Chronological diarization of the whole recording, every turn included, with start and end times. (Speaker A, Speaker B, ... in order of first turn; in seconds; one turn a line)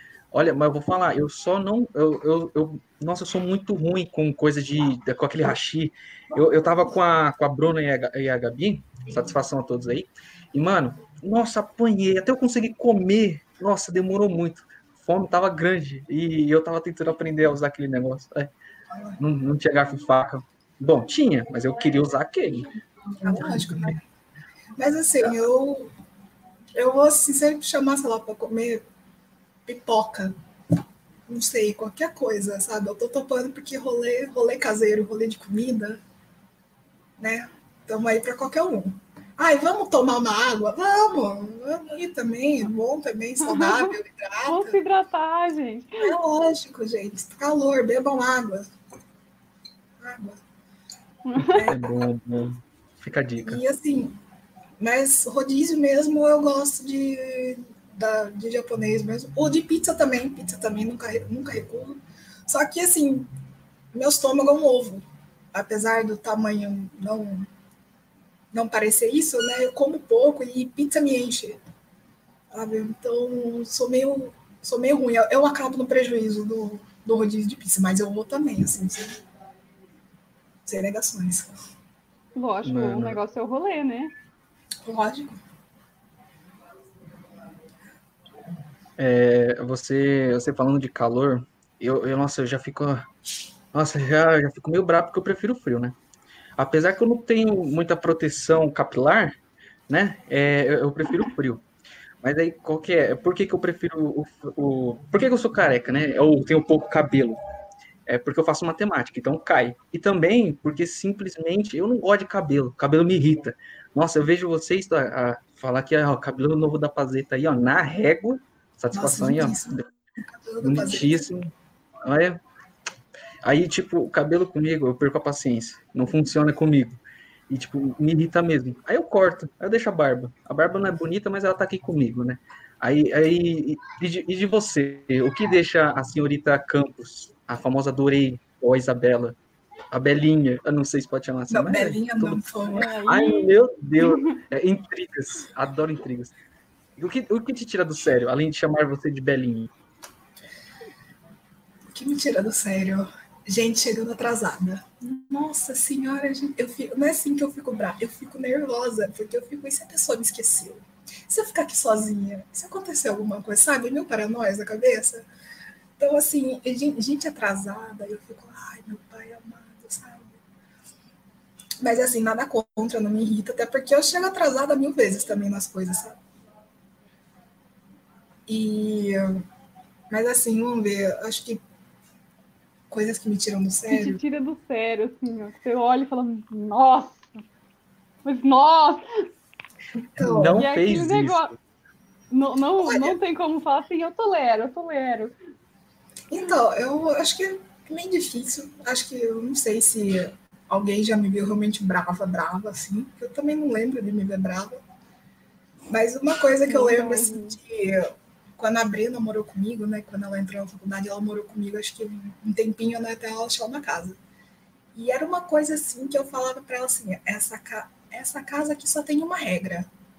Speaker A: 0.3-18.5
Speaker A: 19.2-22.7
Speaker B: 23.1-24.0
Speaker B: 24.8-25.9
Speaker B: 26.8-28.8
Speaker B: 29.7-30.3
Speaker B: 31.3-36.0
Speaker B: 37.2-44.8
Speaker C: 43.4-43.9
Speaker C: 44.5-46.1
Speaker B: 46.0-48.7
Speaker B: 50.0-50.4
Speaker C: 51.3-51.6
Speaker B: 51.4-52.0
Speaker A: 51.7-53.6
Speaker B: 53.4-54.1
Speaker B: 54.8-63.3
Speaker B: 63.9-67.5
Speaker B: 68.5-71.6
Speaker B: 72.5-79.2
Speaker B: 80.7-81.5
Speaker C: 82.4-84.1
Speaker A: 82.6-83.2
Speaker B: 84.8-85.4
Speaker A: 89.0-93.1
Speaker A: 93.7-96.0
Speaker A: 96.6-99.3
Speaker A: 99.9-101.6
Speaker A: 102.2-107.4
Speaker A: 108.1-119.8
Speaker B: 118.9-121.2
Speaker A: 120.6-121.5
Speaker A: 122.0-122.4
Speaker A: 123.4-127.0
Speaker A: 127.5-139.4
Speaker A: 139.9-142.4
Speaker B: 141.5-142.9
Speaker C: 142.7-144.4
Speaker A: 143.1-146.3
Speaker A: 147.0-149.7
Speaker B: 151.9-165.2
Speaker B: 166.0-170.4
Speaker B: 171.8-176.2
Speaker B: 178.5-179.4
Speaker B: 180.1-181.6
Speaker B: 182.9-184.2
Speaker C: 183.9-187.4
Speaker C: 188.2-189.1
Speaker B: 190.1-190.6
Speaker A: 190.2-191.5
Speaker C: 190.6-191.6
Speaker C: 192.3-195.3
Speaker B: 192.8-193.2
Speaker B: 196.3-204.8
Speaker B: 205.9-214.2
Speaker C: 206.7-207.6
Speaker B: 214.9-219.9